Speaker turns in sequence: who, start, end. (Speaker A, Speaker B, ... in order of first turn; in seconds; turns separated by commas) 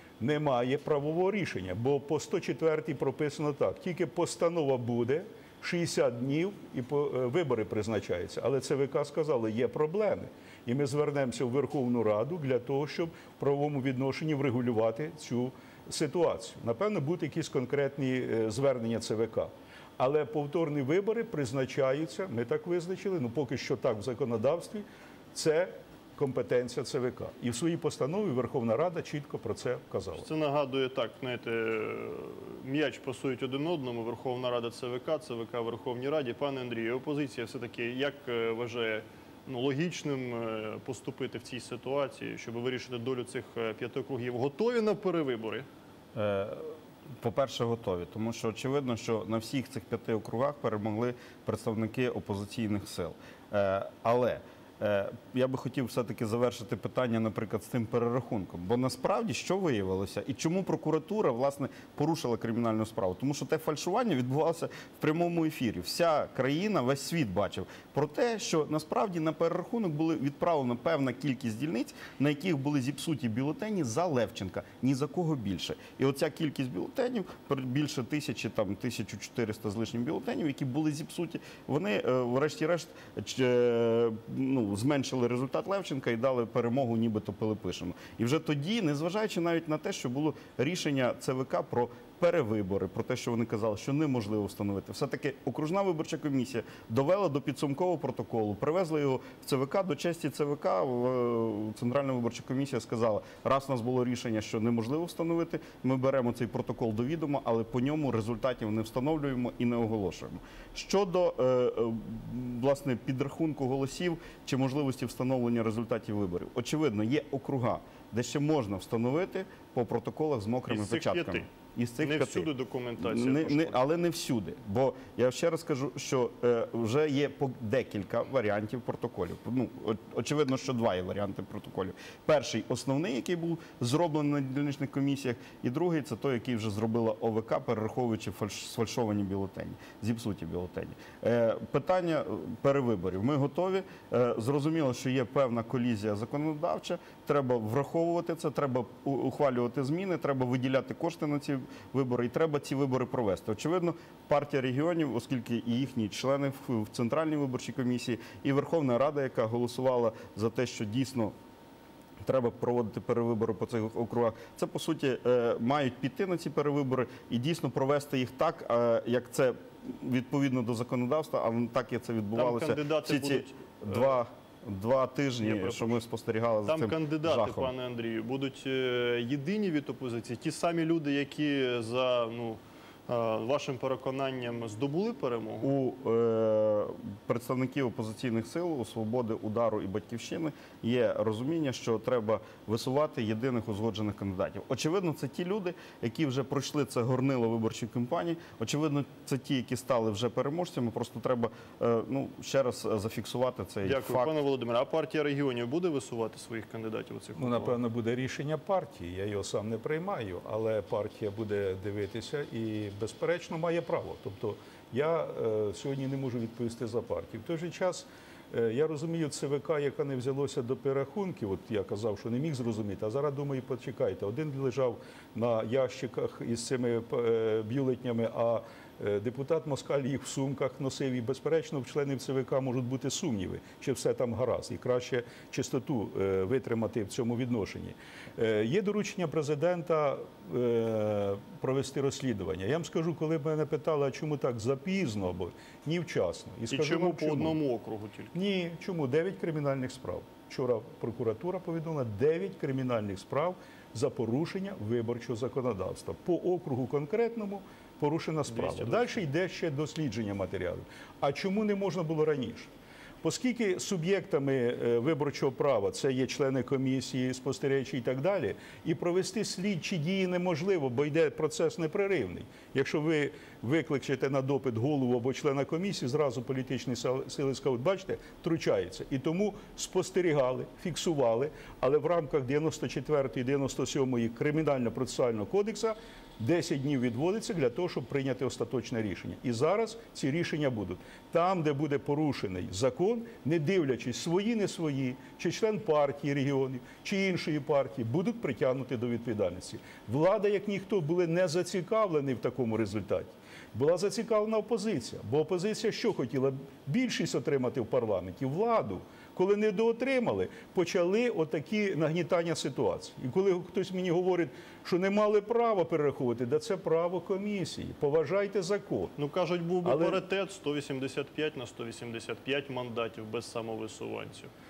Speaker A: 0.2-30.3, Speaker B: 30.2-45.7, Speaker C: 46.1-122.5, Speaker B: 120.7-121.5, Speaker B: 122.0-123.8, Speaker C: 123.0-161.3, Speaker C: 162.2-177.7, Speaker B: 172.3-174.2, Speaker B: 175.4-176.0, Speaker B: 176.7-185.7, Speaker C: 185.6-204.3, Speaker B: 203.8-207.8, Speaker A: 207.3-247.6, Speaker B: 246.7-248.3, Speaker A: 248.3-262.7, Speaker B: 258.5-259.2, Speaker A: 263.2-319.1, Speaker B: 319.2-324.5, Speaker A: 319.8-320.2